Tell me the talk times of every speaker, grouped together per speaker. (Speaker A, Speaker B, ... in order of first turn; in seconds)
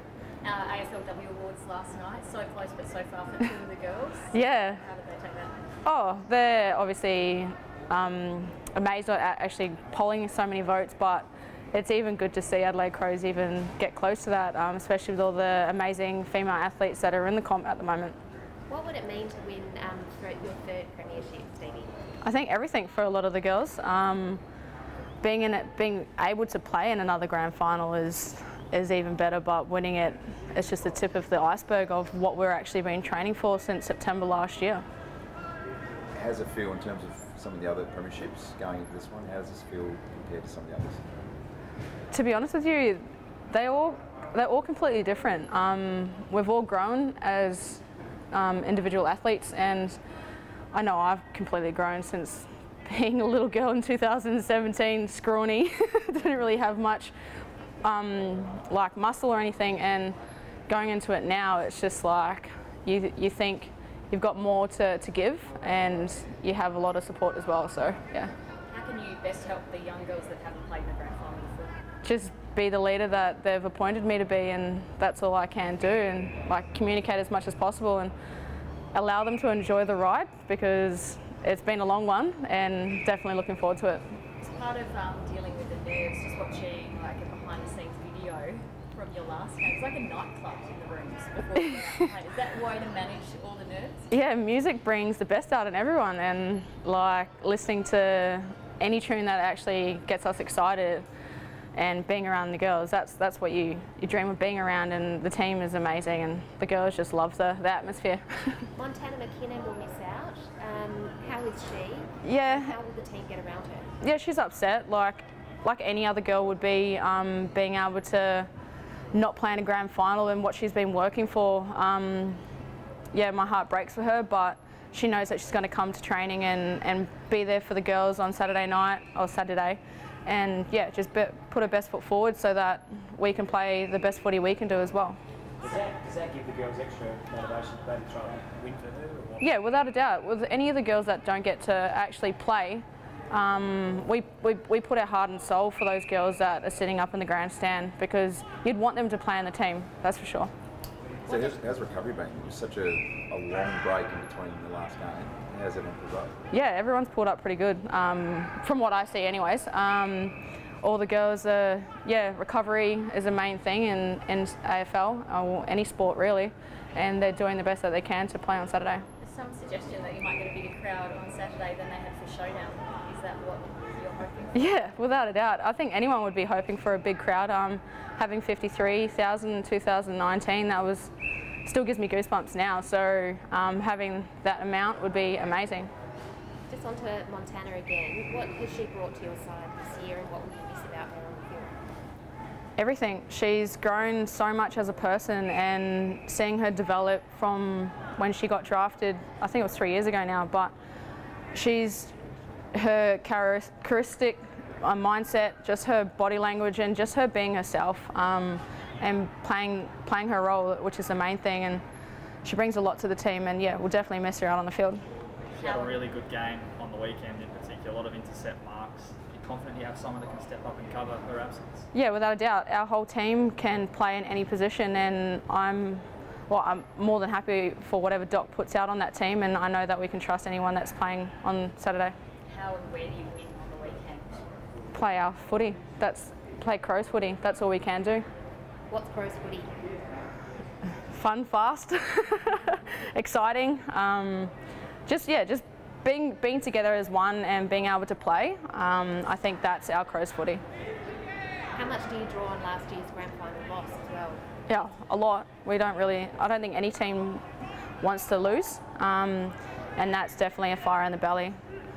Speaker A: 0.4-5.7, 68.7-71.8, 84.4-94.1, 169.2-174.8, 215.5-216.1, 232.5-234.4
Speaker B: 4.3-4.8, 5.8-18.2, 22.2-24.4, 25.2-34.9, 42.1-50.0, 50.7-57.1, 57.8-68.3, 72.0-78.2, 78.9-84.1, 94.1-101.1, 101.7-108.7, 112.2-112.7, 114.0-118.5, 119.1-122.4, 123.1-135.2, 139.4-150.5, 156.5-169.1, 174.5-181.1, 181.6-185.9, 192.8-200.7, 201.5-202.2, 202.7-211.8, 212.4-232.2, 234.9-238.3, 241.1-250.6, 254.7-257.4, 258.0-261.6
Speaker C: 18.7-22.0, 108.8-113.9, 186.7-191.8, 238.9-239.9, 251.7-254.5
Speaker D: 36.1-41.0, 151.2-156.3
Speaker E: 135.6-139.5